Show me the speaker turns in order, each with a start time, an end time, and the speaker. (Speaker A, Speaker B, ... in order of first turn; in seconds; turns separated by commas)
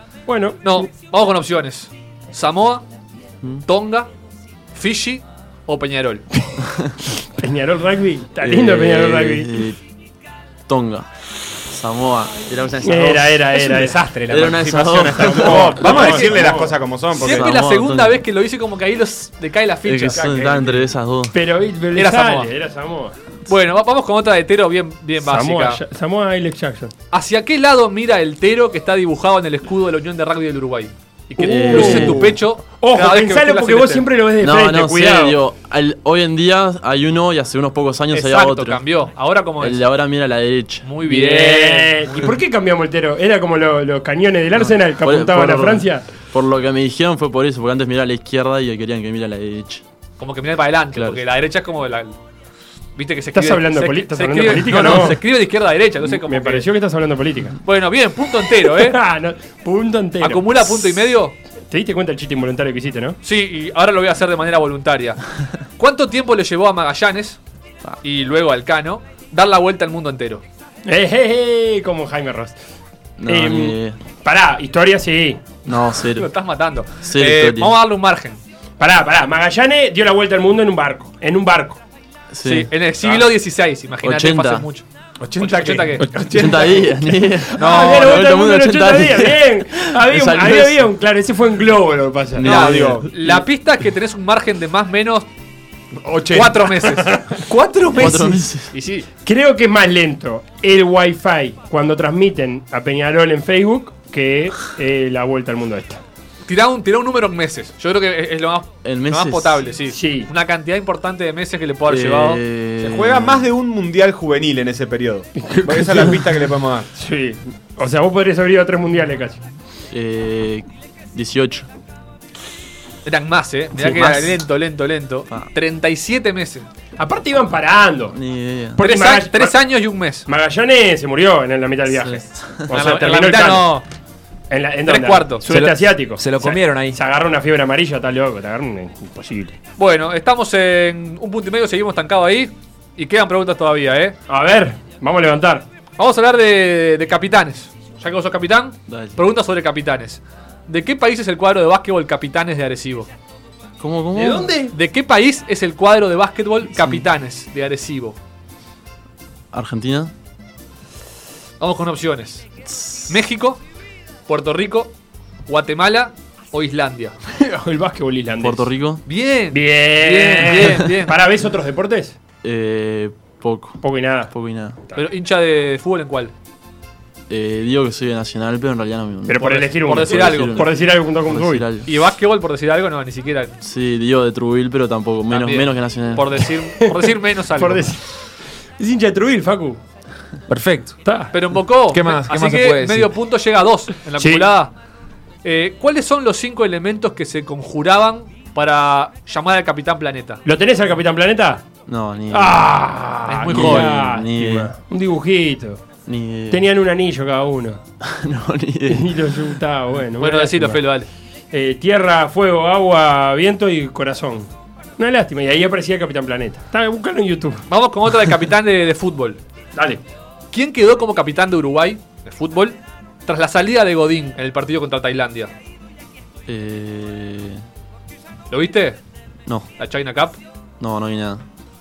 Speaker A: 0.3-0.9, Speaker B: 0.6-2.9, Speaker B: 3.7-4.1, Speaker B: 4.7-6.3, Speaker C: 6.6-7.0, Speaker A: 7.1-9.7, Speaker C: 8.4-9.8, Speaker C: 10.7-11.1, Speaker C: 11.6-15.9, Speaker A: 12.8-16.8, Speaker D: 15.4-17.5, Speaker B: 15.8-16.4, Speaker B: 17.1-20.4, Speaker C: 17.1-18.2, Speaker C: 19.8-21.4, Speaker A: 20.1-23.1, Speaker B: 22.0-22.5, Speaker B: 23.5-25.8, Speaker A: 25.2-26.9, Speaker B: 27.1-34.1, Speaker C: 31.4-32.4, Speaker A: 31.4-35.4, Speaker C: 34.4-38.8, Speaker B: 38.1-39.8, Speaker C: 39.6-40.9, Speaker B: 40.8-42.3, Speaker A: 41.1-46.1, Speaker C: 44.5-49.9, Speaker B: 50.2-52.2, Speaker C: 50.9-51.2, Speaker B: 53.0-56.7, Speaker A: 53.3-55.2, Speaker A: 56.1-57.6, Speaker B: 57.6-59.0, Speaker A: 58.6-60.8, Speaker B: 60.2-61.4, Speaker A: 61.7-63.2, Speaker B: 63.2-65.2, Speaker B: 65.8-67.4, Speaker B: 68.0-70.4, Speaker A: 70.9-72.5, Speaker C: 73.2-74.0, Speaker A: 73.3-75.4, Speaker C: 75.7-76.3, Speaker B: 76.2-78.4, Speaker C: 77.0-77.8, Speaker A: 78.8-81.8, Speaker C: 82.3-82.7, Speaker B: 82.4-84.8, Speaker C: 84.0-84.7, Speaker D: 85.2-86.9, Speaker B: 85.4-86.1, Speaker A: 86.0-93.0, Speaker C: 86.3-90.9, Speaker B: 87.6-88.2, Speaker C: 92.3-93.4, Speaker D: 92.4-93.4, Speaker B: 92.5-95.3, Speaker D: 96.0-97.4, Speaker B: 96.3-97.4, Speaker A: 97.9-98.3, Speaker C: 97.9-98.7, Speaker B: 98.0-99.1, Speaker A: 99.2-106.0, Speaker B: 106.5-112.4, Speaker C: 108.8-109.7, Speaker A: 109.9-110.3, Speaker C: 111.9-113.5, Speaker D: 112.8-116.9, Speaker A: 115.4-116.3, Speaker A: 117.0-119.4, Speaker C: 119.9-121.7, Speaker B: 123.1-126.7, Speaker A: 123.8-124.2, Speaker A: 127.0-128.2, Speaker C: 128.1-128.8, Speaker A: 128.8-129.6, Speaker B: 128.8-130.3, Speaker A: 130.3-133.8, Speaker C: 131.9-132.7, Speaker B: 132.7-133.9, Speaker A: 134.5-139.6, Speaker B: 134.9-135.5, Speaker E: 135.5-137.0, Speaker B: 139.8-144.2, Speaker A: 144.3-145.7, Speaker B: 146.0-153.1, Speaker C: 148.9-149.2, Speaker C: 153.8-154.5, Speaker B: 154.2-158.2, Speaker A: 154.3-154.7, Speaker C: 156.7-157.1, Speaker C: 159.5-160.1, Speaker B: 161.6-162.5, Speaker C: 162.7-163.2, Speaker B: 163.1-163.6, Speaker B: 164.3-164.9, Speaker B: 165.5-167.2, Speaker A: 167.3-168.7, Speaker C: 168.4-169.0, Speaker B: 169.1-171.2, Speaker A: 169.5-172.2, Speaker C: 172.4-174.8, Speaker A: 173.8-174.3, Speaker B: 174.9-176.3, Speaker C: 177.3-181.9, Speaker A: 179.3-181.7, Speaker B: 179.4-180.7, Speaker B: 181.9-183.6, Speaker C: 183.6-186.5, Speaker B: 185.3-187.9, Speaker A: 186.8-188.2, Speaker A: 188.8-189.8, Speaker E: 190.5-191.0, Speaker A: 191.0-191.3, Speaker B: 191.3-194.7, Speaker E: 191.9-193.1, Speaker A: 194.2-194.5, Speaker B: 195.4-200.4, Speaker A: 200.4-201.6, Speaker C: 201.9-202.8, Speaker A: 202.3-205.8, Speaker B: 203.3-204.0, Speaker C: 203.5-204.7, Speaker C: 206.1-206.7, Speaker A: 206.5-207.8, Speaker C: 208.0-209.2, Speaker A: 208.9-210.8, Speaker B: 210.2-211.1, Speaker A: 211.5-217.7, Speaker B: 217.7-219.4, Speaker A: 219.8-220.0, Speaker B: 220.5-225.5, Speaker C: 226.5-227.6, Speaker B: 228.5-229.0, Speaker B: 229.8-230.4, Speaker C: 230.8-231.4